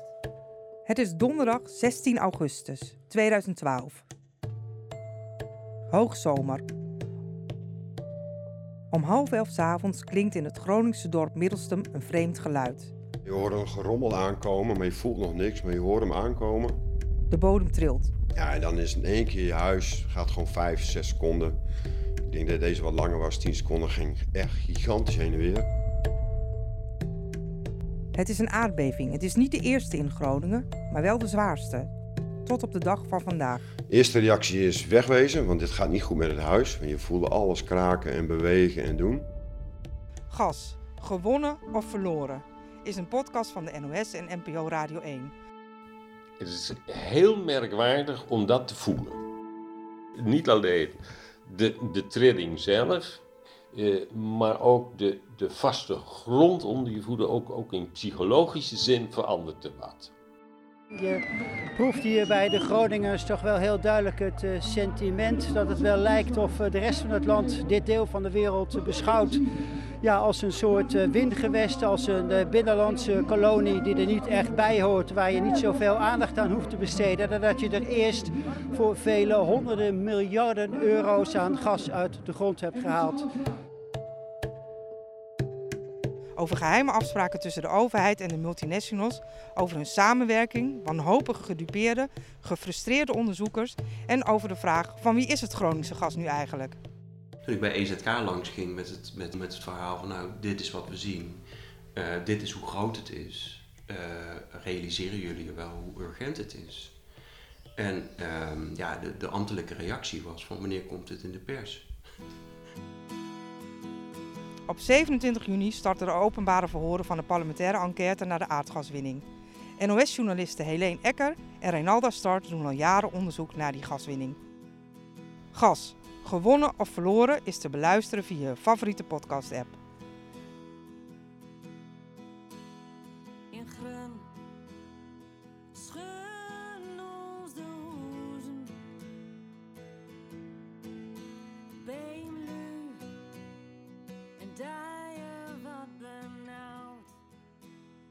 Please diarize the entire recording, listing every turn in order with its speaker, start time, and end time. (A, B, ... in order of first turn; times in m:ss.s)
0:00.9-0:04.0 A
0:05.9-0:06.6 A
0:08.9-0:12.9 A
0:13.2-0:16.8 B
0:17.3-0:18.1 A
0:18.4-0:21.6 B
0:22.3-0:25.7 B
0:28.1-0:31.9 A
0:32.4-0:33.6 A
0:33.9-0:39.3 B
0:40.3-0:45.3 A
0:46.4-0:49.2 C
0:50.2-1:00.1 C
1:00.9-1:01.2 D
1:01.8-1:09.4 D
1:10.0-1:23.3 D
1:26.4-1:36.8 A
1:37.5-1:47.0 E
1:47.8-1:51.9 E
1:54.7-1:59.2 A
1:59.8-2:04.4 A
2:05.5-2:09.8 A
2:13.5-2:14.3 F
2:15.8-2:18.7 F
2:21.8-2:23.1 F
2:24.4-2:27.1 F